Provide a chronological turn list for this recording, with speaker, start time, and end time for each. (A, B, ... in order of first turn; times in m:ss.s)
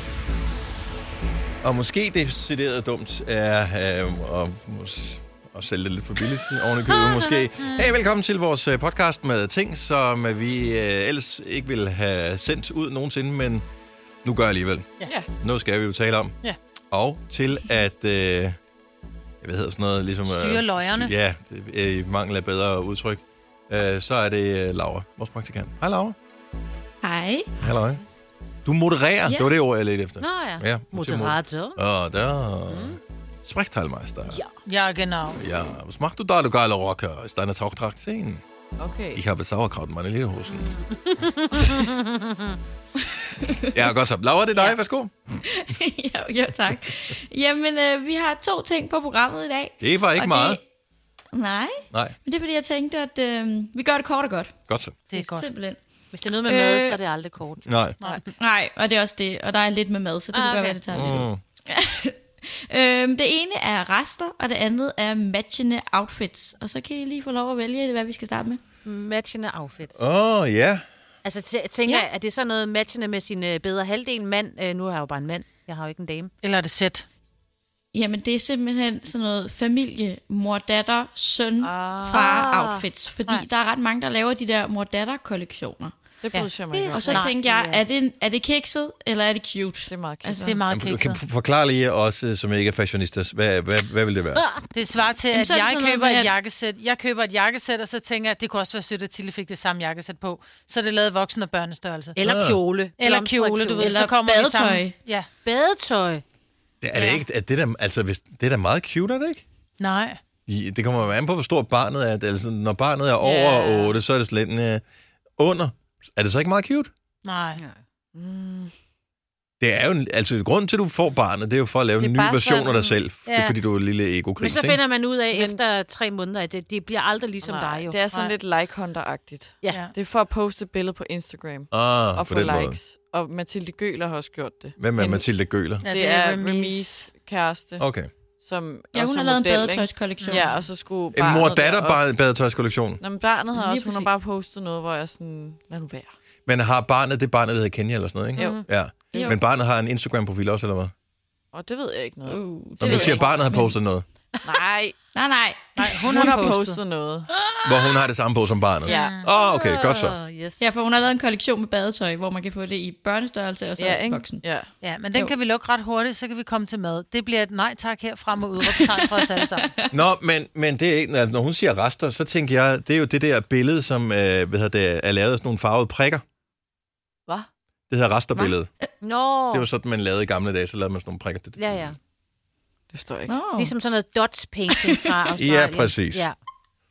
0:01.6-0:13.6 A
0:07.6-0:08.0 B
0:14.2-0:16.4 A
0:16.9-0:18.6 A
0:19.4-0:26.2 A
0:20.2-0:21.1 B
0:27.0-0:27.5 C
0:27.6-0:28.0 A
0:28.6-0:34.4 A
0:29.2-0:29.5 C
0:30.2-0:31.8 D
0:32.7-0:33.0 D
0:34.3-0:34.5 D
0:34.6-0:35.4 B
0:35.4-0:38.4 A
0:38.8-0:39.2 E
0:39.1-0:40.7 A
0:40.5-0:42.5 D
0:43.4-0:43.9 C
0:43.7-0:45.2 A
0:45.4-0:50.6 C
0:49.8-0:50.6 A
0:51.3-0:54.6 C
0:54.7-0:55.0 A
0:55.1-0:55.5 B
0:55.1-0:55.8 C
0:56.1-0:58.3 D
0:56.4-0:57.0 C
0:57.6-0:58.0 A
0:58.3-1:02.2 C
1:00.3-1:00.8 D
1:00.9-1:01.4 A
1:02.7-1:08.6 C
1:08.8-1:10.0 D
1:09.9-1:10.8 A
1:11.2-1:16.3 D
1:16.4-1:17.0 B
1:17.9-1:25.9 C
1:21.6-1:22.3 E
1:22.1-1:22.8 D
1:26.2-1:27.2 E
1:26.7-1:27.8 D
1:26.9-1:30.6 C
1:29.9-1:30.6 E
1:30.4-1:31.2 B
1:30.7-1:34.4 A
1:34.4-1:34.6 D
1:34.7-1:42.2 B
1:35.3-1:36.3 C
1:42.2-1:44.8 D
1:42.2-1:42.6 A
1:43.0-1:45.3 B
1:43.8-1:44.1 C
1:44.6-1:44.9 C
1:45.4-1:46.2 D
1:46.8-1:49.4 A
1:47.0-1:47.2 D
1:49.8-1:50.2 B
1:50.5-1:54.8 A
1:53.2-1:53.9 D
1:55.4-1:56.9 A
1:57.2-1:57.6 B
1:58.1-1:58.7 E
1:59.6-2:04.8 A
2:02.0-2:03.0 E
2:03.2-2:03.6 B
2:04.4-2:08.3 D
2:05.3-2:05.6 E
2:07.4-2:22.2 E
2:09.6-2:09.9 D
2:11.7-2:12.8 A
2:14.8-2:15.8 A
2:15.8-2:17.0 B
2:17.8-2:18.1 A
2:18.9-2:20.6 C
2:21.1-2:23.0 A
2:23.0-2:26.1 E
2:23.5-2:24.1 C
2:26.4-2:30.9 A
2:28.4-2:28.6 D
2:29.1-2:29.4 C
2:31.5-2:33.4 E
2:32.2-2:33.7 C
2:32.8-2:34.0 A
2:34.4-2:35.0 E
2:35.1-2:35.7 C
2:35.8-2:36.8 B
2:36.0-2:37.3 E
2:37.4-2:38.0 D
2:37.6-2:40.2 A
2:38.8-2:39.2 E
2:38.9-2:39.3 B
2:39.3-2:40.6 D
2:40.6-2:44.4 C
2:43.8-2:44.7 E
2:44.8-2:49.7 B
2:48.6-2:49.9 C
2:49.9-2:56.2 A
2:57.9-2:58.7 A
2:59.0-2:59.7 D
2:59.5-3:01.6 A
3:01.6-3:02.0 D
3:02.9-3:03.4 E
3:03.3-3:03.7 C
3:03.6-3:06.3 D
3:04.7-3:05.1 C
3:05.4-3:06.3 A